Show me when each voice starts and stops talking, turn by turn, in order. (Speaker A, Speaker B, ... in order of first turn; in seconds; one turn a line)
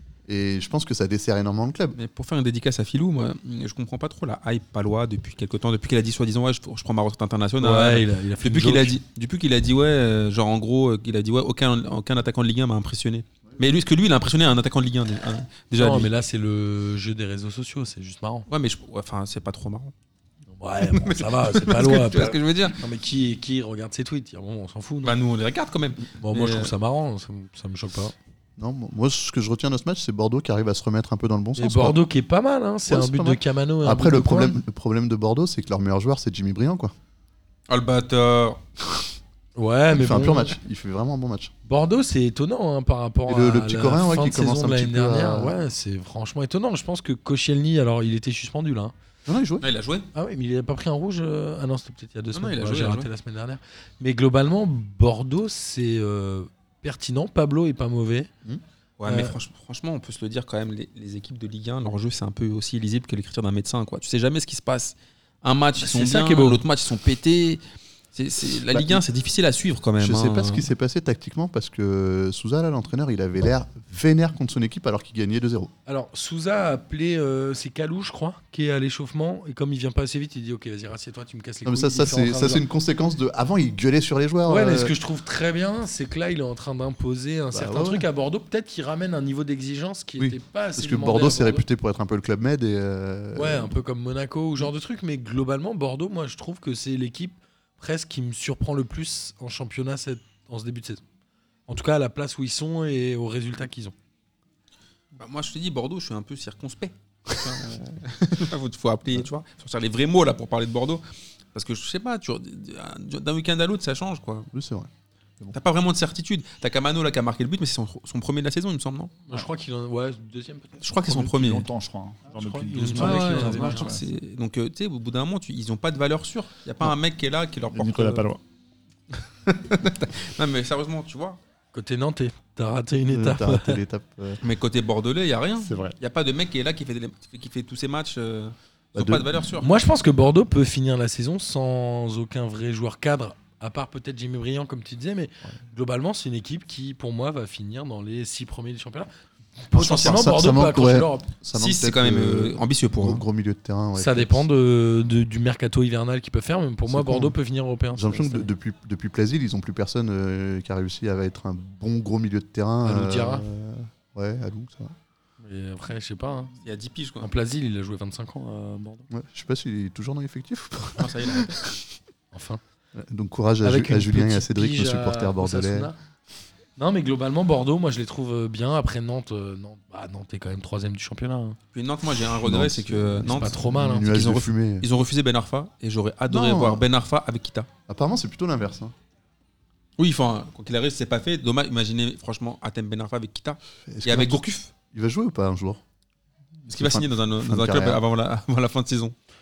Speaker A: 0.3-2.0
Speaker B: 1.9-16.1
Speaker C: 7.6-9.0
Speaker C: 15.8-18.5
Speaker B: 18.5-19.9
Speaker C: 20.5-25.2
Speaker B: 20.8-22.8
Speaker B: 25.0-26.7
Speaker C: 26.2-28.1
Speaker A: 28.6-32.0
Speaker C: 31.6-34.6
Speaker A: 32.9-36.9
Speaker B: 37.7-38.6
Speaker C: 39.6-40.6
Speaker A: 39.9-41.5
Speaker C: 41.7-48.9
Speaker A: 43.3-45.5
Speaker A: 49.3-49.6
Speaker B: 49.6-50.1
Speaker C: 50.1-58.3
Speaker B: 52.3-53.1
Speaker B: 59.0-67.6
Speaker C: 59.0-59.4
Speaker C: 65.8-66.6
Speaker B: 68.1-70.7
Speaker A: 68.7-69.0
Speaker A: 70.0-75.7
Speaker C: 75.9-82.6
Speaker A: 81.7-84.9
Speaker C: 84.5-91.7
Speaker A: 87.5-88.1
Speaker A: 90.2-93.7
Speaker C: 93.3-101.0
Speaker C: 101.7-104.0
Speaker B: 105.2-114.5
Speaker A: 114.5-115.5
Speaker B: 115.5-119.2
Speaker C: 119.3-120.8
Speaker B: 120.8-121.7
Speaker D: 121.0-124.1
Speaker C: 122.3-123.9
Speaker B: 122.8-128.2
Speaker D: 127.7-128.4
Speaker B: 129.1-131.4
Speaker C: 131.7-133.8
Speaker A: 133.1-134.4
Speaker B: 134.4-139.7
Speaker D: 135.6-136.0
Speaker A: 138.9-139.6
Speaker C: 139.6-149.1
Speaker C: 149.7-151.3
Speaker B: 149.7-150.3
Speaker A: 149.8-154.4
Speaker B: 151.5-153.2
Speaker C: 154.0-158.5
Speaker A: 156.9-157.3
Speaker A: 157.9-164.9
Speaker C: 162.8-163.5
Speaker C: 165.4-166.5
Speaker B: 166.6-167.3
Speaker C: 167.2-169.1
Speaker A: 169.1-171.8
Speaker B: 171.0-171.6
Speaker C: 172.3-172.6
Speaker A: 173.0-175.9
Speaker C: 173.6-176.0
Speaker C: 176.8-181.6
Speaker B: 181.7-187.7
Speaker A: 182.3-184.9
Speaker C: 183.2-184.1
Speaker A: 186.3-186.9
Speaker A: 187.9-188.9
Speaker B: 190.0-194.7
Speaker A: 193.9-195.8
Speaker A: 196.6-198.0
Speaker B: 196.7-199.2